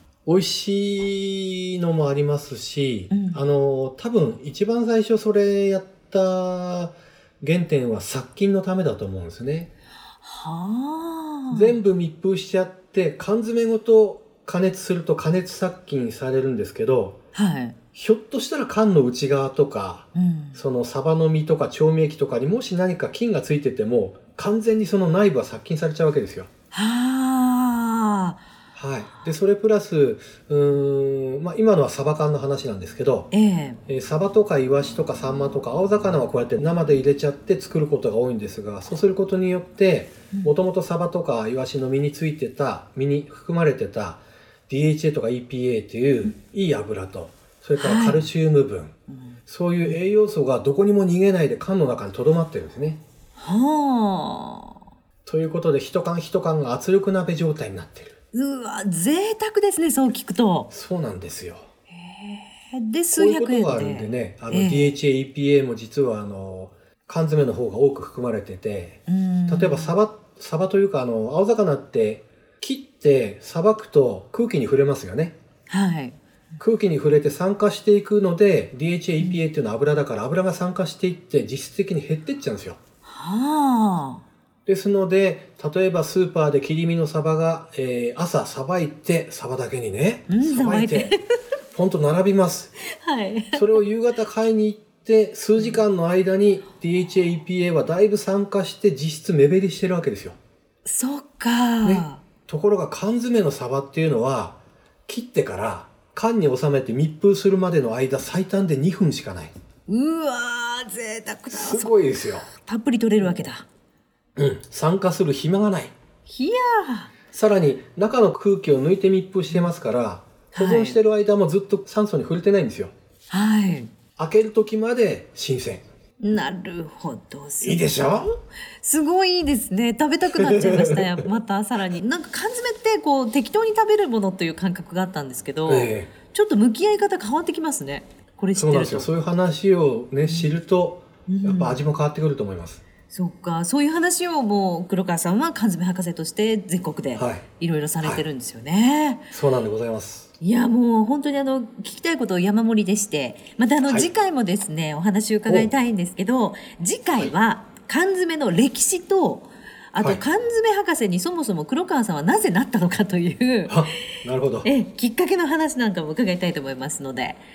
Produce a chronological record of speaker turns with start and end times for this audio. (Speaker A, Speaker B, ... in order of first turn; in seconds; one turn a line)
Speaker A: 0.3-9.7
Speaker B: 3.1-3.4
Speaker B: 10.2-11.8
Speaker A: 11.5-17.2
Speaker B: 17.4-17.8
Speaker A: 17.9-26.5
Speaker B: 20.1-20.6
Speaker B: 26.7-28.4
Speaker A: 28.8-33.3
Speaker B: 33.3-33.8
Speaker A: 33.9-48.9
Speaker B: 47.8-48.2
Speaker B: 49.1-49.4
Speaker A: 49.5-53.0
Speaker B: 53.4-54.8
Speaker A: 55.3-58.2
Speaker B: 58.3-60.7
Speaker A: 60.7-61.6
Speaker B: 61.9-65.0
Speaker A: 63.1-75.4
Speaker B: 69.1-70.0
Speaker B: 75.7-76.2
Speaker A: 76.6-82.8
Speaker B: 83.0-84.2
Speaker A: 84.7-91.2
Speaker B: 90.3-91.2
Speaker A: 91.7-92.7
Speaker B: 92.9-93.7
Speaker A: 93.5-100.4
Speaker B: 100.9-102.2
Speaker A: 101.8-109.5
Speaker B: 109.9-112.0
Speaker A: 111.5-112.5
Speaker B: 112.6-113.7
Speaker A: 114.4-115.9
Speaker B: 116.3-117.1
Speaker A: 117.3-122.9
Speaker B: 120.5-121.0
Speaker B: 123.3-123.9
Speaker A: 124.2-125.8
Speaker B: 126.2-127.8
Speaker A: 127.6-128.3
Speaker B: 128.8-139.1
Speaker A: 130.3-131.2
Speaker A: 135.7-136.1
Speaker A: 138.6-142.8
Speaker B: 141.3-141.8
Speaker B: 143.1-149.3
Speaker A: 147.2-147.4
Speaker A: 149.3-150.3
Speaker B: 150.4-163.9
Speaker A: 155.5-155.7
Speaker A: 163.7-164.7
Speaker B: 164.6-167.4